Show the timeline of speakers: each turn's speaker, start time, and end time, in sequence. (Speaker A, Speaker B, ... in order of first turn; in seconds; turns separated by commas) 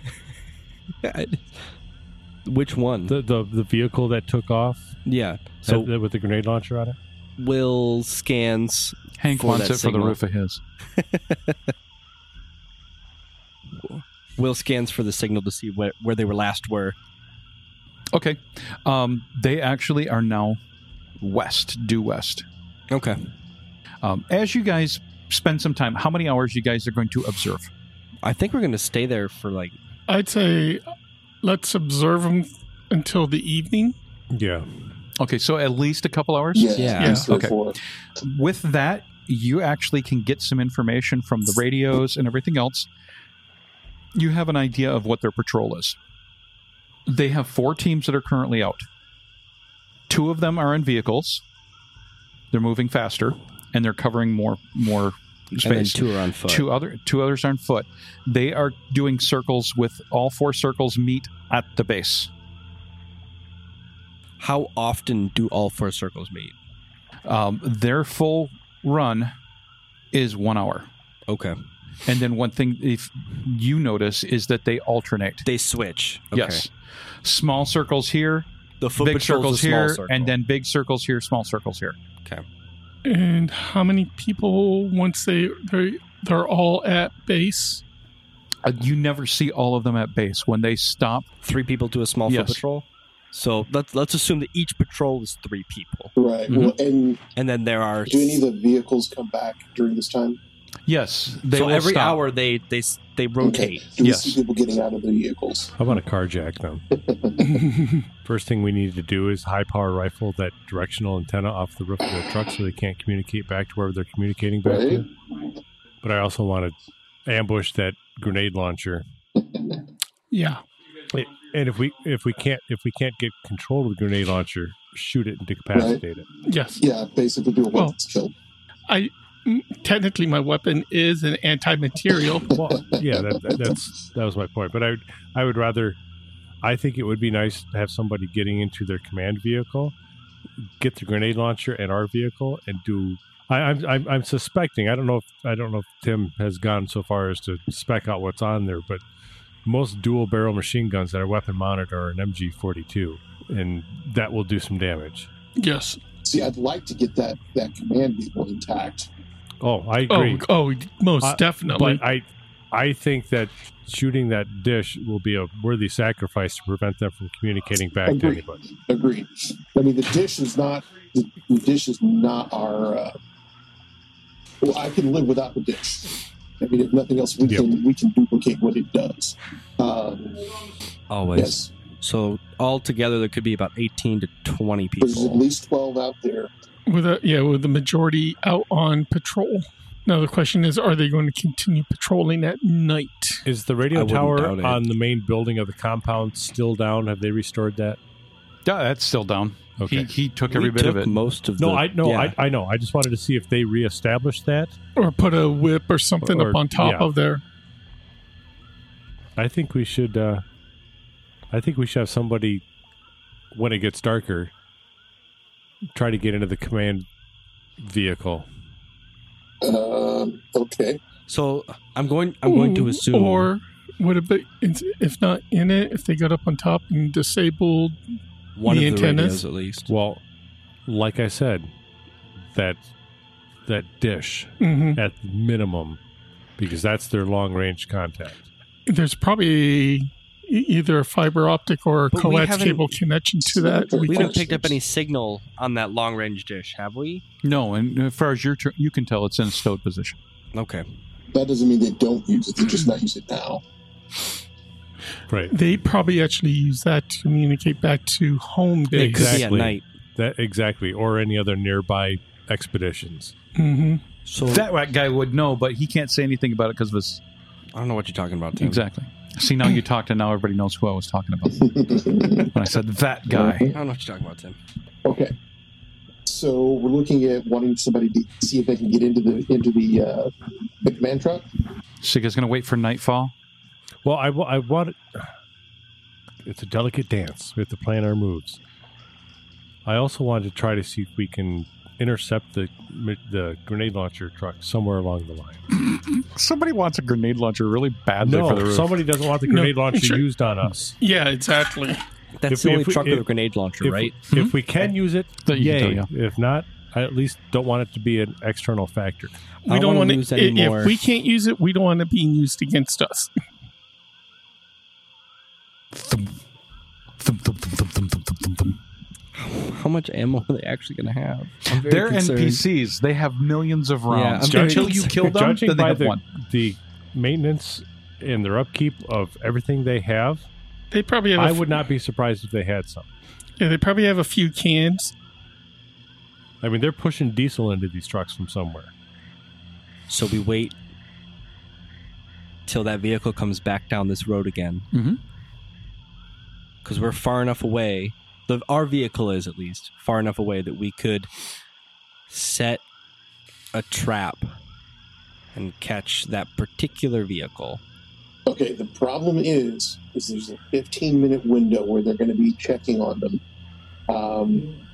Speaker A: 1.0-1.6, Speaker A: 2.4-3.1, Speaker B: 3.1-4.9, Speaker A: 5.0-5.9, Speaker B: 5.7-7.0, Speaker A: 7.4-10.2, Speaker C: 9.2-10.6, Speaker A: 11.0-11.6, Speaker A: 13.8-16.9, Speaker C: 18.1-20.6, Speaker C: 21.2-22.4, Speaker A: 22.9-23.3, Speaker C: 24.0-27.7, Speaker A: 28.2-29.7, Speaker D: 30.1-30.8, Speaker D: 31.4-34.0, Speaker B: 34.3-34.7, Speaker C: 35.2-37.5, Speaker E: 36.5-37.8, Speaker A: 36.8-37.3, Speaker D: 37.0-37.3, Speaker C: 38.2-42.9, Speaker C: 44.1-46.0, Speaker C: 47.1-48.8, Speaker C: 50.1-51.4, Speaker C: 52.5-62.3, Speaker A: 55.6-56.7, Speaker A: 64.4-66.5, Speaker C: 67.2-69.3, Speaker C: 70.1-70.9, Speaker A: 71.3-71.6, Speaker C: 72.0-75.4, Speaker A: 75.4-76.6, Speaker C: 76.3-76.7, Speaker C: 77.2-78.5, Speaker A: 78.8-80.3, Speaker C: 79.0-82.0, Speaker D: 83.0-87.8, Speaker C: 88.6-91.3, Speaker A: 91.4-96.1, Speaker C: 92.3-92.6, Speaker E: 96.2-97.2, Speaker C: 96.5-96.7, Speaker A: 97.3-98.4, Speaker E: 98.0-100.4, Speaker C: 100.9-102.2, Speaker A: 101.5-103.9, Speaker E: 103.4-105.8, Speaker C: 104.0-104.4, Speaker B: 105.8-106.8, Speaker E: 106.9-107.7, Speaker D: 107.5-108.0, Speaker B: 108.2-115.1, Speaker E: 114.6-115.0, Speaker B: 116.0-119.0, Speaker E: 119.4-119.8, Speaker D: 120.3-120.6, Speaker B: 121.1-126.3, Speaker E: 125.7-126.0, Speaker D: 126.5-126.8, Speaker E: 126.8-128.3, Speaker D: 128.9-132.5, Speaker E: 132.4-133.8, Speaker B: 132.5-136.0, Speaker B: 136.6-139.9, Speaker B: 140.6-149.0, Speaker B: 149.6-155.3, Speaker D: 155.6-156.0, Speaker E: 156.2-159.1, Speaker B: 159.6-160.5, Speaker D: 160.1-162.0, Speaker B: 161.2-168.6, Speaker E: 168.1-173.2, Speaker E: 174.6-180.6, Speaker B: 177.4-177.7, Speaker A: 181.1-185.4, Speaker E: 181.3-181.7, Speaker E: 185.0-186.5, Speaker D: 186.8-193.4, Speaker B: 193.4-198.0, Speaker A: 193.9-194.8, Speaker C: 198.7-201.1, Speaker B: 199.8-200.1, Speaker A: 200.5-202.3, Speaker B: 201.6-204.8, Speaker D: 205.0-207.4, Speaker B: 206.2-207.1, Speaker B: 209.4-210.4, Speaker B: 211.5-212.6, Speaker B: 213.5-214.5, Speaker B: 215.9-217.1, Speaker B: 217.8-218.5, Speaker E: 219.6-221.0, Speaker A: 221.3-223.5, Speaker D: 222.4-228.0, Speaker A: 228.6-229.9, Speaker D: 228.6-229.4, Speaker B: 229.9-230.2, Speaker B: 230.8-231.7, Speaker B: 232.4-232.8, Speaker B: 233.7-236.0, Speaker D: 234.6-235.0, Speaker B: 236.6-238.4, Speaker D: 238.9-244.4, Speaker A: 242.1-242.9, Speaker E: 243.4-244.8, Speaker A: 244.1-247.2, Speaker C: 247.4-250.2, Speaker A: 250.5-250.8, Speaker E: 251.3-253.6, Speaker B: 255.3-255.5, Speaker D: 255.5-259.4, Speaker B: 258.9-263.3, Speaker A: 258.9-259.8, Speaker D: 263.6-264.0, Speaker A: 264.2-264.6, Speaker C: 264.4-267.2, Speaker A: 267.7-268.8, Speaker C: 268.6-271.6, Speaker E: 271.5-272.6, Speaker C: 272.5-273.7, Speaker E: 273.3-273.8, Speaker A: 273.7-274.6, Speaker E: 275.0-275.3, Speaker E: 276.2-281.4, Speaker C: 282.0-283.3, Speaker B: 284.0-285.3, Speaker B: 286.4-288.6, Speaker B: 289.8-295.6, Speaker C: 295.8-298.9, Speaker B: 298.2-300.9, Speaker D: 299.4-300.2, Speaker D: 301.0-302.0, Speaker A: 302.4-304.2, Speaker B: 302.5-303.3, Speaker B: 303.8-309.3, Speaker C: 305.4-306.1, Speaker D: 309.6-313.3, Speaker A: 309.7-311.0, Speaker C: 315.9-316.3, Speaker C: 317.2-318.8, Speaker A: 319.3-322.6, Speaker C: 321.7-326.2, Speaker A: 324.1-325.4, Speaker B: 324.5-330.4, Speaker D: 330.9-331.7, Speaker B: 331.3-333.1, Speaker D: 333.6-335.1, Speaker B: 336.6-338.9, Speaker A: 340.1-340.7, Speaker A: 342.7-344.9, Speaker C: 344.9-345.2, Speaker A: 346.8-351.3, Speaker A: 352.3-352.8, Speaker A: 353.7-354.5, Speaker A: 355.5-357.8, Speaker E: 358.5-363.4, Speaker E: 364.1-364.8